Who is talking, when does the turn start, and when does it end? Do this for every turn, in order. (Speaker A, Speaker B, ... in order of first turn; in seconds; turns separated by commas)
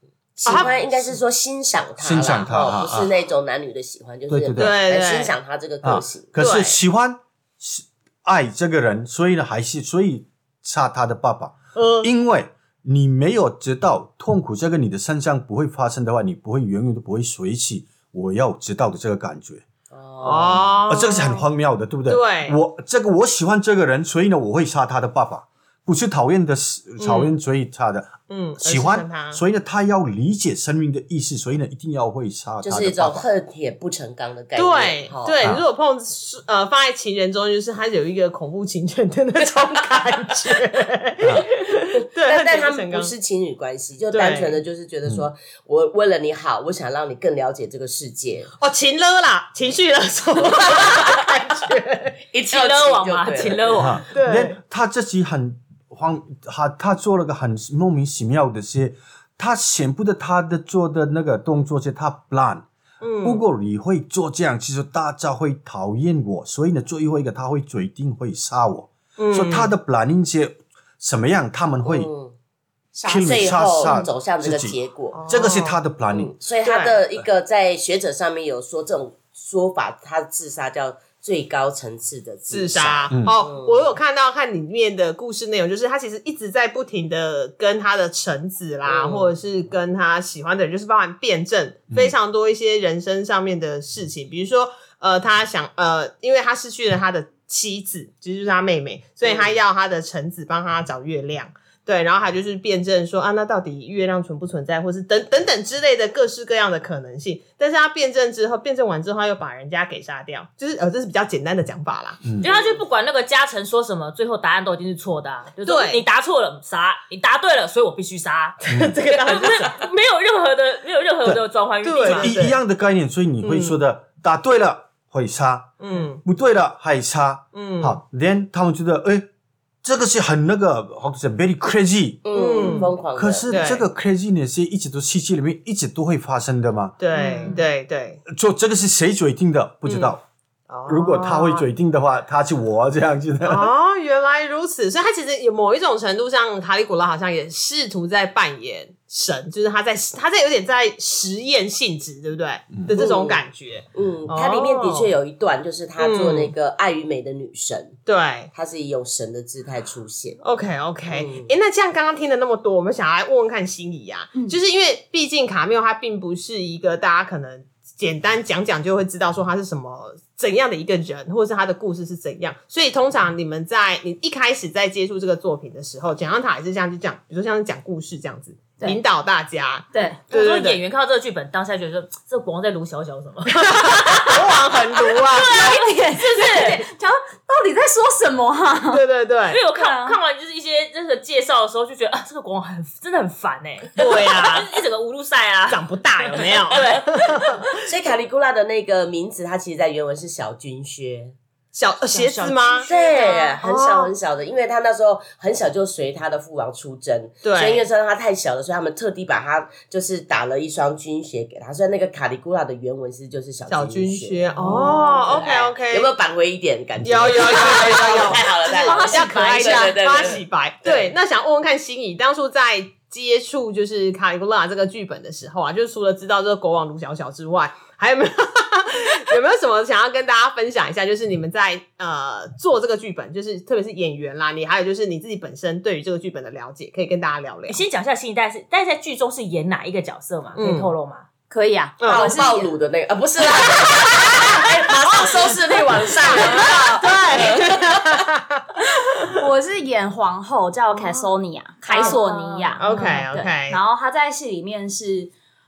Speaker A: 0.4-6.5, Speaker B: 0.5-1.0, Speaker C: 2.0-3.1, Speaker C: 4.3-4.8, Speaker B: 4.6-5.3, Speaker C: 5.8-19.6, Speaker B: 6.4-6.8, Speaker B: 11.8-12.1, Speaker A: 19.9-20.7, Speaker B: 20.2-21.4, Speaker C: 20.9-33.3, Speaker B: 22.1-22.6, Speaker B: 27.0-27.3, Speaker B: 28.3-29.4, Speaker A: 32.6-35.5, Speaker B: 34.6-43.1, Speaker A: 42.2-48.5, Speaker B: 44.1-44.6, Speaker B: 48.6-52.2, Speaker A: 50.5-51.2, Speaker A: 52.3-53.9, Speaker D: 52.5-54.1, Speaker C: 53.8-62.7, Speaker B: 54.1-54.6, Speaker B: 63.0-63.4, Speaker C: 63.2-72.1, Speaker B: 69.2-69.7, Speaker A: 71.8-72.3, Speaker C: 73.0-74.8, Speaker A: 73.0-75.5, Speaker B: 75.1-75.8, Speaker C: 75.3-76.3, Speaker A: 76.1-83.8, Speaker B: 76.6-77.0, Speaker B: 82.5-112.8, Speaker A: 88.9-89.3, Speaker A: 99.2-99.5, Speaker D: 112.4-122.4, Speaker B: 115.6-116.0, Speaker B: 118.6-119.9, Speaker C: 118.7-119.0, Speaker B: 121.8-122.6, Speaker C: 122.0-129.3, Speaker B: 123.4-123.8, Speaker B: 125.8-126.2, Speaker B: 127.5-128.0, Speaker C: 129.8-132.3, Speaker A: 132.2-133.7, Speaker B: 132.3-133.8, Speaker C: 133.1-137.0, Speaker B: 137.0-138.2, Speaker E: 137.2-137.6, Speaker C: 138.3-140.2, Speaker B: 139.9-140.1, Speaker B: 140.7-141.7, Speaker C: 140.9-143.7, Speaker B: 143.4-155.1, Speaker C: 152.7-153.0, Speaker A: 152.9-153.4, Speaker A: 153.9-158.0, Speaker B: 156.0-156.5, Speaker B: 158.1-158.5, Speaker A: 158.5-160.4, Speaker B: 160.4-180.8, Speaker A: 161.1-161.5, Speaker E: 179.9-180.2, Speaker D: 180.3-186.9, Speaker B: 183.5-185.6, Speaker E: 185.3-189.0, Speaker B: 188.9-189.6, Speaker D: 189.5-197.8, Speaker E: 189.8-190.2, Speaker B: 194.0-194.7, Speaker B: 195.7-197.8, Speaker A: 197.8-201.4, Speaker B: 201.7-204.1, Speaker D: 202.1-203.3, Speaker A: 202.8-221.1, Speaker B: 207.4-207.9, Speaker B: 213.7-216.1, Speaker E: 214.6-215.2, Speaker B: 217.0-237.8, Speaker D: 218.9-219.2, Speaker E: 218.9-219.9, Speaker D: 237.7-241.3, Speaker B: 240.6-240.9, Speaker E: 241.5-242.7, Speaker B: 242.0-242.4, Speaker A: 242.1-248.2, Speaker B: 246.2-248.6, Speaker E: 246.3-247.5, Speaker E: 249.1-255.3, Speaker B: 251.9-252.2, Speaker D: 252.0-252.8, Speaker B: 252.8-253.8